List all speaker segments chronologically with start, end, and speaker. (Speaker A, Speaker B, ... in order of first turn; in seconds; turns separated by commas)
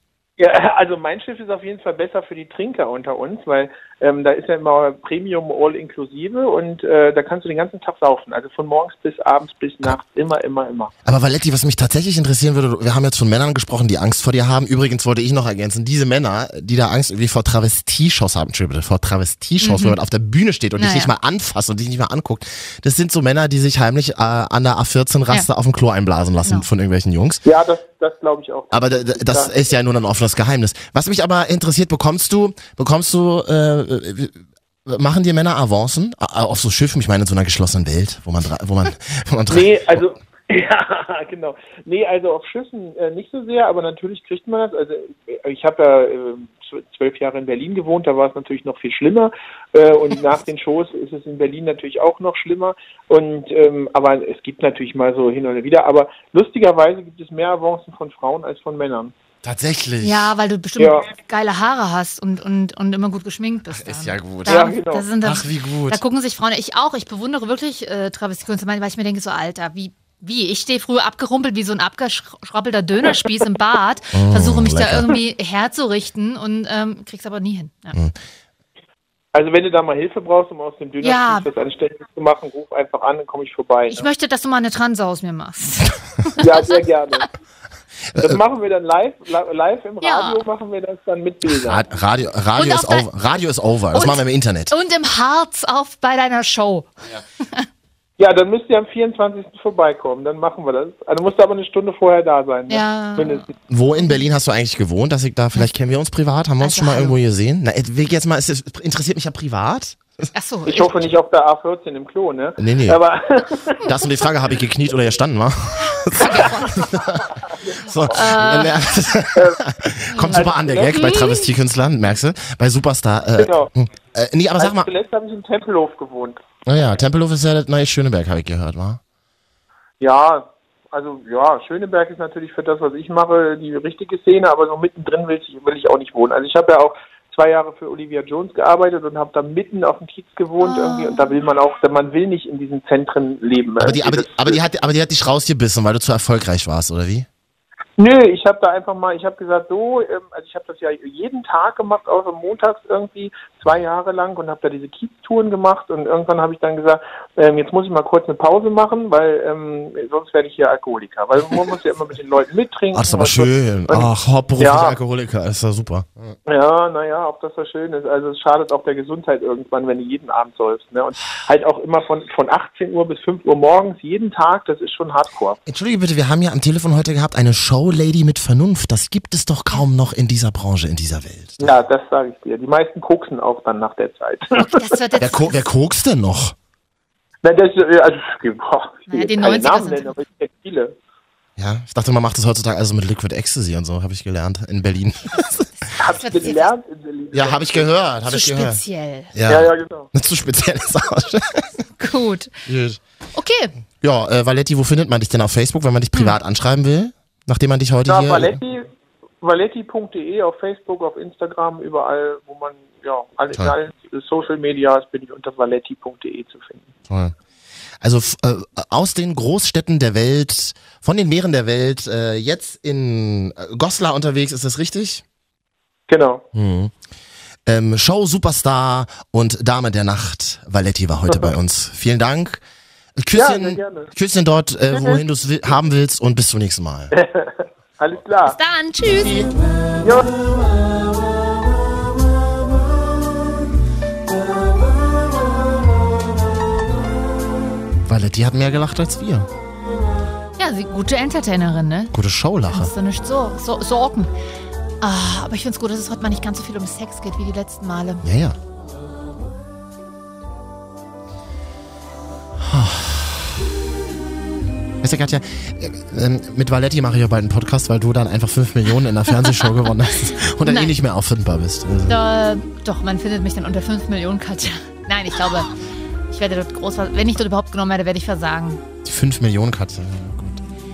Speaker A: 0.4-10.9, Speaker B: 11.1-27.4, Speaker C: 19.6-20.0, Speaker C: 20.8-21.1, Speaker A: 27.4-29.6, Speaker B: 28.7-39.8, Speaker A: 39.5-59.1, Speaker B: 59.4-60.3, Speaker C: 60.0-78.0, Speaker A: 60.8-61.1, Speaker B: 63.7-66.0, Speaker A: 64.5-65.1, Speaker B: 74.1-75.2, Speaker A: 79.3-84.0, Speaker C: 81.0-81.5, Speaker C: 83.9-86.8, Speaker A: 86.4-87.3, Speaker B: 88.1-88.4, Speaker A: 88.2-91.8, Speaker C: 90.0-90.4, Speaker B: 91.5-94.7, Speaker C: 92.6-93.1, Speaker C: 93.9-97.7, Speaker A: 98.2-103.5, Speaker C: 102.7-103.5, Speaker B: 103.7-110.3, Speaker C: 106.6-107.2, Speaker C: 110.3-110.9, Speaker A: 110.7-113.9, Speaker B: 112.6-113.0, Speaker B: 113.8-124.9, Speaker C: 116.1-117.0, Speaker A: 117.7-118.2, Speaker C: 118.1-118.8, Speaker C: 120.1-121.5, Speaker A: 120.3-121.2, Speaker A: 123.4-123.7, Speaker A: 124.6-126.4, Speaker B: 126.7-129.0, Speaker A: 130.0-144.6, Speaker C: 140.6-141.3, Speaker B: 143.8-147.3, Speaker A: 148.0-165.0, Speaker B: 162.9-166.4, Speaker A: 166.5-175.6, Speaker B: 175.7-181.7, Speaker A: 181.6-184.9, Speaker C: 184.6-185.6, Speaker B: 185.2-186.6, Speaker A: 187.4-190.9, Speaker C: 189.1-190.1, Speaker B: 191.6-195.7, Speaker C: 195.3-196.7, Speaker A: 196.0-197.9, Speaker B: 197.3-198.8, Speaker C: 198.3-199.3, Speaker B: 199.3-201.7, Speaker A: 199.5-200.1, Speaker C: 202.0-202.6, Speaker B: 202.7-203.0, Speaker C: 203.3-203.7, Speaker B: 204.0-208.6, Speaker A: 208.1-208.9, Speaker A: 209.4-216.9, Speaker B: 217.1-217.3, Speaker B: 218.0-225.2, Speaker A: 226.1-226.4, Speaker B: 226.5-226.9, Speaker B: 227.7-232.6, Speaker B: 233.2-237.1, Speaker A: 233.3-234.1, Speaker A: 237.1-238.6, Speaker C: 238.4-239.5, Speaker B: 239.0-239.5, Speaker A: 240.0-240.3, Speaker B: 248.1-249.5, Speaker C: 250.6-252.2, Speaker B: 252.1-252.9, Speaker C: 252.7-254.3, Speaker C: 255.0-258.2, Speaker B: 258.2-258.6, Speaker B: 262.6-263.6, Speaker B: 265.0-272.2, Speaker C: 269.4-269.7, Speaker C: 270.3-270.9, Speaker C: 272.1-275.7, Speaker C: 276.3-278.8, Speaker B: 279.0-280.6